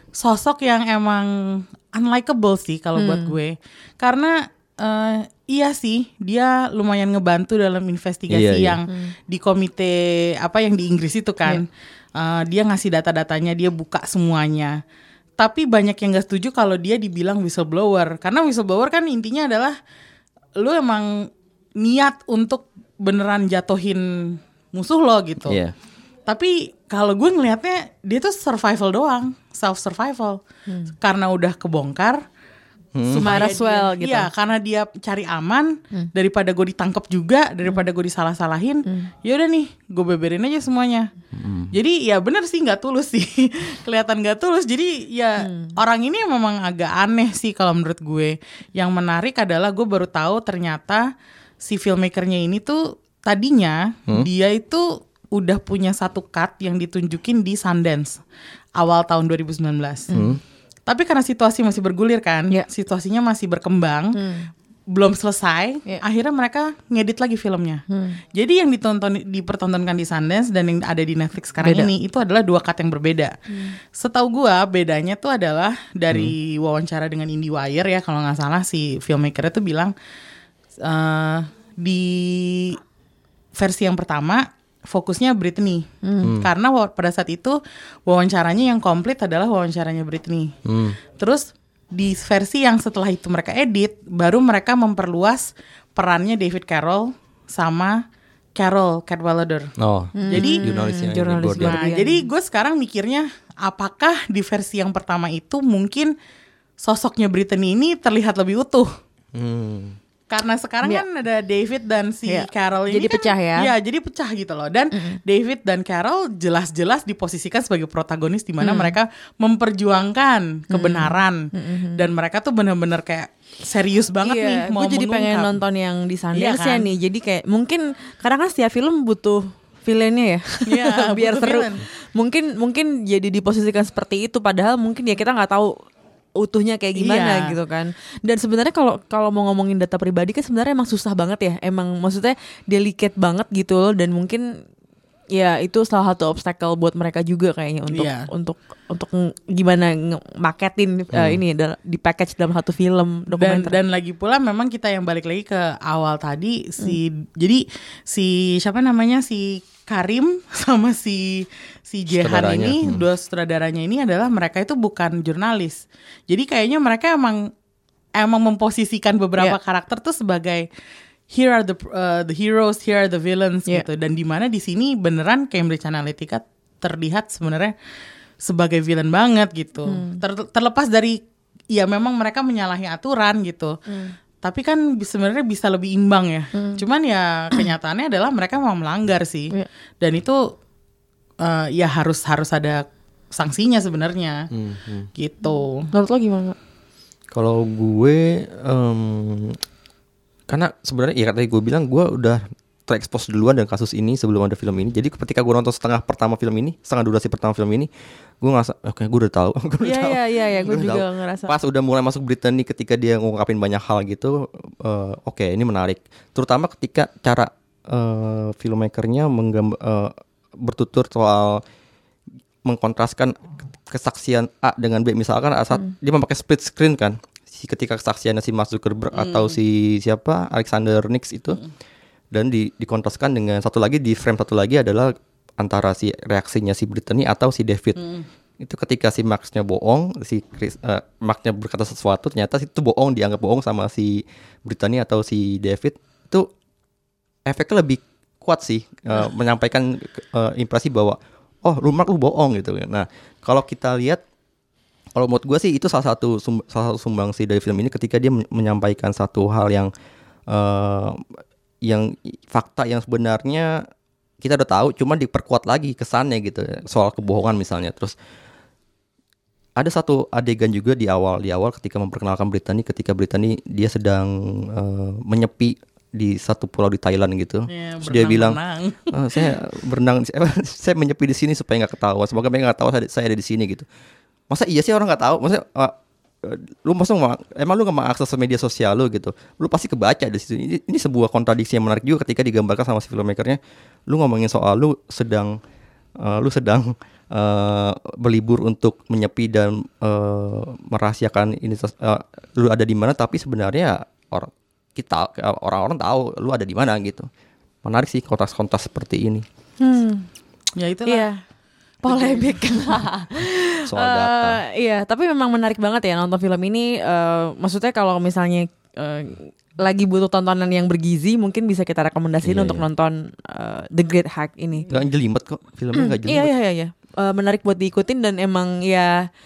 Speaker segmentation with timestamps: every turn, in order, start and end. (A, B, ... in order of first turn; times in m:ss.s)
0:00.2-0:11.7 A
0:03.0-0:03.4 B
0:08.3-0:08.8 C
0:12.2-0:14.8 A
0:15.4-0:19.8 A
0:20.6-0:21.3 A
0:21.8-0:25.6 A
0:25.4-0:25.8 C
0:26.3-0:30.4 A
0:30.7-0:30.9 B
0:31.0-0:32.2 A
0:33.0-0:33.3 C
0:33.1-0:41.1 A
0:33.1-0:34.3 B
0:41.3-0:41.7 C
0:41.7-0:51.0 A
0:45.4-0:45.8 B
0:51.6-0:58.2 A
0:58.8-1:00.1 A
1:00.1-1:00.4 C
1:00.9-1:04.2 A
1:04.2-1:04.5 B
1:04.9-1:07.8 A
1:07.9-1:08.2 B
1:08.4-1:13.3 A
1:11.6-1:11.9 B
1:14.0-1:19.9 A
1:20.8-1:22.8 A
1:23.6-1:27.6 A
1:26.0-1:26.3 B
1:26.2-1:26.5 C
1:28.1-1:30.5 A
1:30.7-1:31.0 C
1:31.2-1:38.0 A
1:38.6-1:39.7 A
1:39.8-1:41.8 C
1:40.2-1:42.2 B
1:40.3-1:40.6 A
1:41.5-1:46.1 A
1:46.8-1:48.9 A
1:49.4-1:50.0 C
1:50.3-2:05.6 A
1:52.3-1:53.7 B
1:58.6-1:59.0 B
2:00.7-2:02.0 B
2:04.2-2:15.7 B
2:06.3-2:06.9 A
2:10.7-2:11.8 A
2:16.4-2:24.4 B
2:17.0-2:17.6 A
2:25.4-2:33.8 B
2:27.9-2:28.3 A
2:31.1-2:31.4 C
2:33.4-2:47.5 A
2:42.1-2:43.1 C
2:48.2-2:50.7 A
2:51.3-2:57.7 A
2:58.4-3:01.2 A
2:59.9-3:00.2 B
3:01.7-3:03.8 A
3:03.9-3:04.2 B
3:04.4-3:10.4 A
3:06.6-3:06.8 B
3:11.4-3:12.8 A
3:13.4-3:14.4 A
3:14.5-3:15.1 C
3:15.2-3:15.9 A
3:15.4-3:16.6 B
3:17.3-3:19.6 C
3:20.5-3:27.9 C
3:28.4-3:41.6 C
3:29.8-3:31.6 B
3:42.6-3:51.6 C
3:49.2-3:49.6 A
3:52.3-3:58.0 C
3:58.0-3:58.2 A
3:58.6-4:06.5 C
4:07.5-4:14.2 C
4:15.2-4:19.9 C
4:20.5-4:21.2 C
4:21.8-4:23.8 C
4:24.4-4:28.2 C
4:29.8-4:38.6 C
4:37.7-4:39.5 A
4:39.1-4:43.9 C
4:44.5-4:55.6 C
4:56.2-5:07.3 C
5:07.8-5:09.4 C
5:09.8-5:10.2 B
5:10.8-5:11.3 A
5:11.1-5:11.3 B
5:12.0-5:24.9 B
5:12.1-5:12.7 A
5:13.9-5:14.6 C
5:22.4-5:22.8 C
5:24.9-5:26.5 C
5:26.0-5:29.3 B